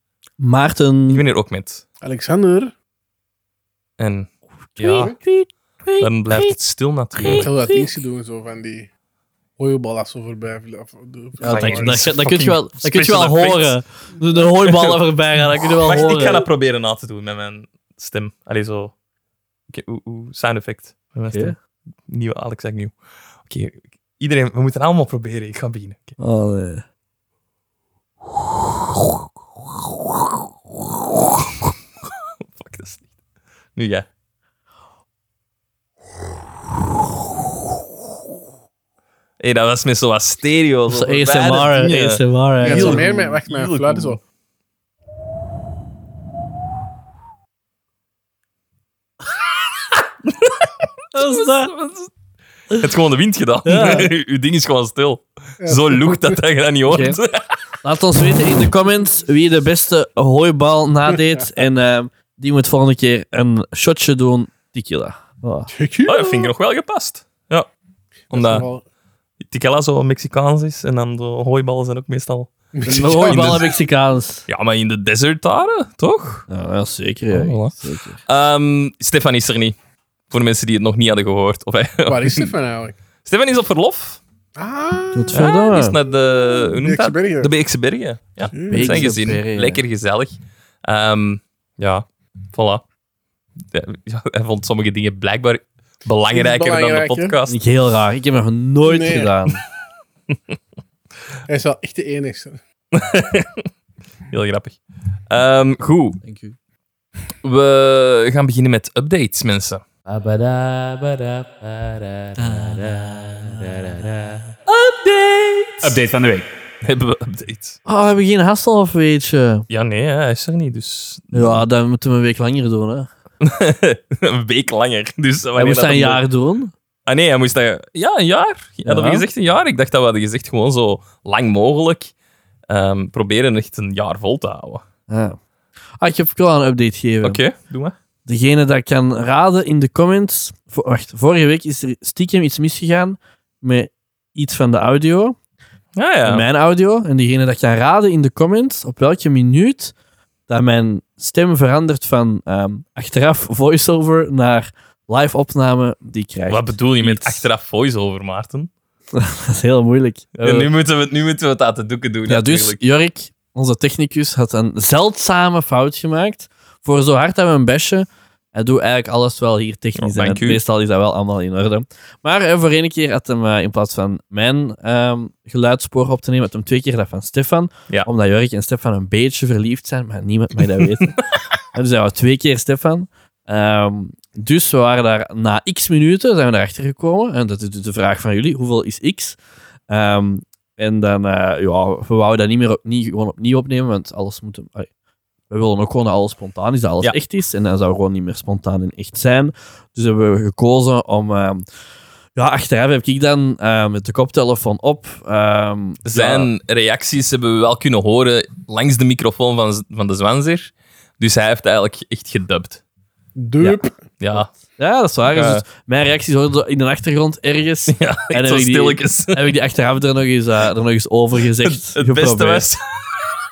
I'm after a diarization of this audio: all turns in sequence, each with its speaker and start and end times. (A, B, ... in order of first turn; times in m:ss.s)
0:00.4-0:01.2 A
0:01.1-0:01.8 B
0:02.0-0:02.7 C
0:04.0-0:05.1 B
0:04.7-0:06.5 A
0:06.0-0:07.5 B
0:07.2-0:07.8 A
0:07.3-0:08.9 C
0:09.6-0:12.0 C
0:11.4-0:16.4 A
0:11.4-0:13.8 B
0:14.4-0:15.0 B
0:15.8-0:18.9 B
0:19.7-0:21.6 B
0:21.3-0:21.5 A
0:22.1-0:22.9 B
0:23.4-0:26.2 B
0:26.2-0:26.8 A
0:32.5-0:33.0 B
0:33.8-0:34.1 B
0:39.4-0:44.2 B
0:40.9-0:43.0 A
0:42.6-0:44.2 C
0:50.2-0:52.1 B
0:51.1-0:51.7 A
0:52.8-0:57.8 B
0:53.6-0:54.1 A
0:55.6-0:56.4 C
0:56.9-0:57.2 A
0:57.8-1:05.7 A
1:05.7-1:06.5 C
1:06.0-1:07.7 B
1:08.3-1:08.7 B
1:08.3-1:08.8 C
1:09.4-1:13.7 B
1:12.7-1:13.7 C
1:12.8-1:14.4 A
1:14.5-1:16.4 B
1:16.5-1:18.2 A
1:17.3-1:19.8 B
1:20.3-1:22.5 B
1:22.0-1:23.0 C
1:23.2-1:24.2 B
1:24.6-1:25.5 C
1:25.1-1:26.0 A
1:25.3-1:32.8 B
1:26.0-1:27.5 C
1:28.4-1:29.2 C
1:28.7-1:29.8 A
1:33.7-1:37.6 B
1:36.3-1:37.3 C
1:37.5-1:39.6 A
1:38.8-1:39.3 C
1:41.5-1:42.6 C
1:42.9-1:43.7 B
1:44.3-1:44.8 B
1:45.3-1:46.2 B
1:46.2-1:46.5 A
1:47.4-1:49.8 B
1:50.0-1:54.5 D
1:52.4-1:53.6 A
1:54.7-1:56.2 B
1:55.8-1:56.4 D
1:56.8-1:57.8 B
1:57.8-1:59.6 A
1:59.7-2:01.6 B
2:01.3-2:03.1 A
2:03.4-2:06.2 B
2:05.6-2:06.7 A
2:07.1-2:12.1 B
2:08.8-2:09.2 A
2:12.7-2:14.8 B
2:15.1-2:15.4 A
2:16.0-2:17.4 A
2:17.2-2:17.9 B
2:18.2-2:25.4 A
2:26.0-2:26.4 B
2:26.2-2:29.9 A
2:30.5-2:37.4 A
2:36.5-2:38.7 B
2:39.1-2:40.7 A
2:40.4-2:42.8 B
2:42.3-3:01.2 A
2:50.0-2:50.6 B
3:01.7-3:09.4 A
3:09.9-3:14.9 A
3:15.5-3:21.6 A
3:22.4-3:26.5 A
3:26.0-3:32.8 B
3:33.4-3:34.0 C
3:33.6-3:34.5 B
3:34.8-3:42.6 A
3:35.3-3:35.6 B
3:37.9-3:39.5 B
3:41.7-3:43.2 B